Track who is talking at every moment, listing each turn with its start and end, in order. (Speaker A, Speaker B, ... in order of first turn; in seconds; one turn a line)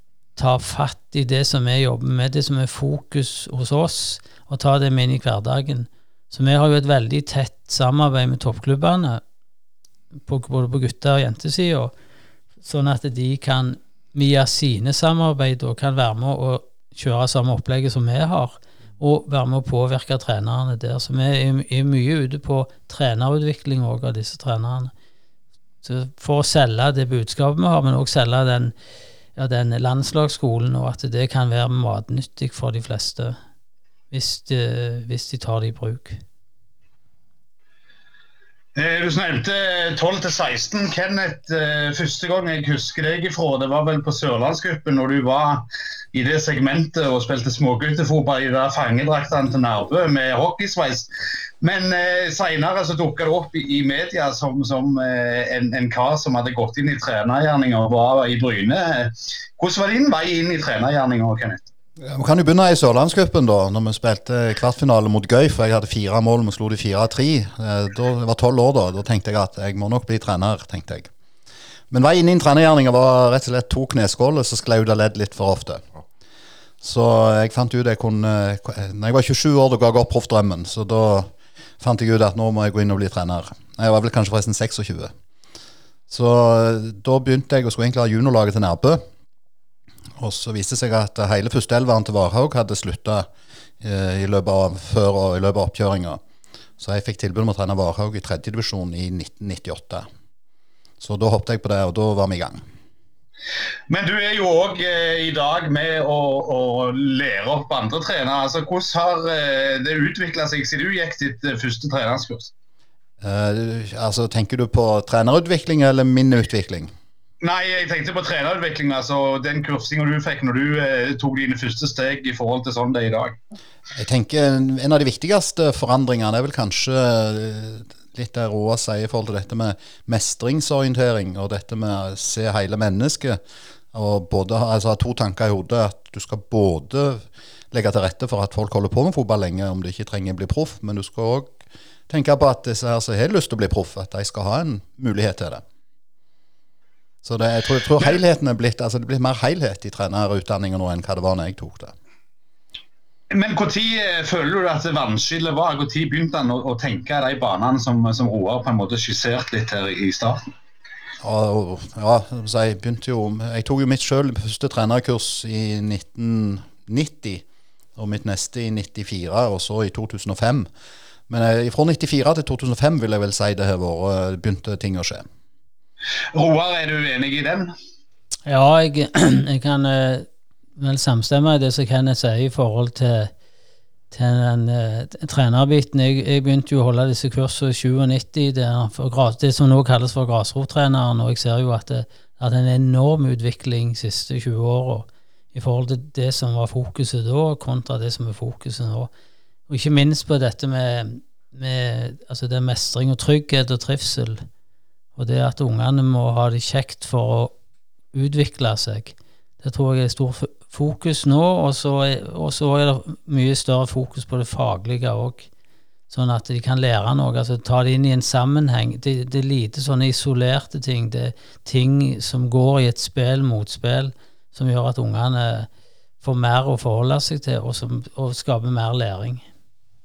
Speaker A: 0.3-9.2
Speaker A: 10.3-11.9
Speaker A: 12.6-24.9
Speaker A: 25.8-28.7
Speaker A: 29.4-33.4
Speaker A: 34.1-36.2
Speaker B: 38.7-51.1
Speaker B: 51.6-61.6
Speaker C: 62.0-71.1
Speaker C: 71.9-75.8
Speaker C: 76.8-85.1
Speaker C: 86.1-89.0
Speaker C: 90.2-93.3
Speaker C: 93.8-96.2
Speaker C: 96.8-100.0
Speaker C: 101.0-102.6
Speaker B: 103.9-112.5
Speaker C: 113.2-116.9
Speaker B: 117.4-123.4
Speaker C: 123.9-133.4
Speaker C: 133.9-141.6
Speaker C: 142.1-145.6
Speaker C: 147.2-151.9
Speaker B: 153.3-160.4
Speaker C: 161.2-167.4
Speaker C: 167.9-170.7
Speaker C: 171.3-175.2
Speaker B: 176.3-177.7
Speaker A: 178.4-183.3
Speaker A: 184.1-199.1
Speaker A: 199.7-204.4
Speaker A: 205.2-207.5
Speaker A: 208.1-215.5
Speaker A: 216.1-225.7
Speaker A: 226.2-229.4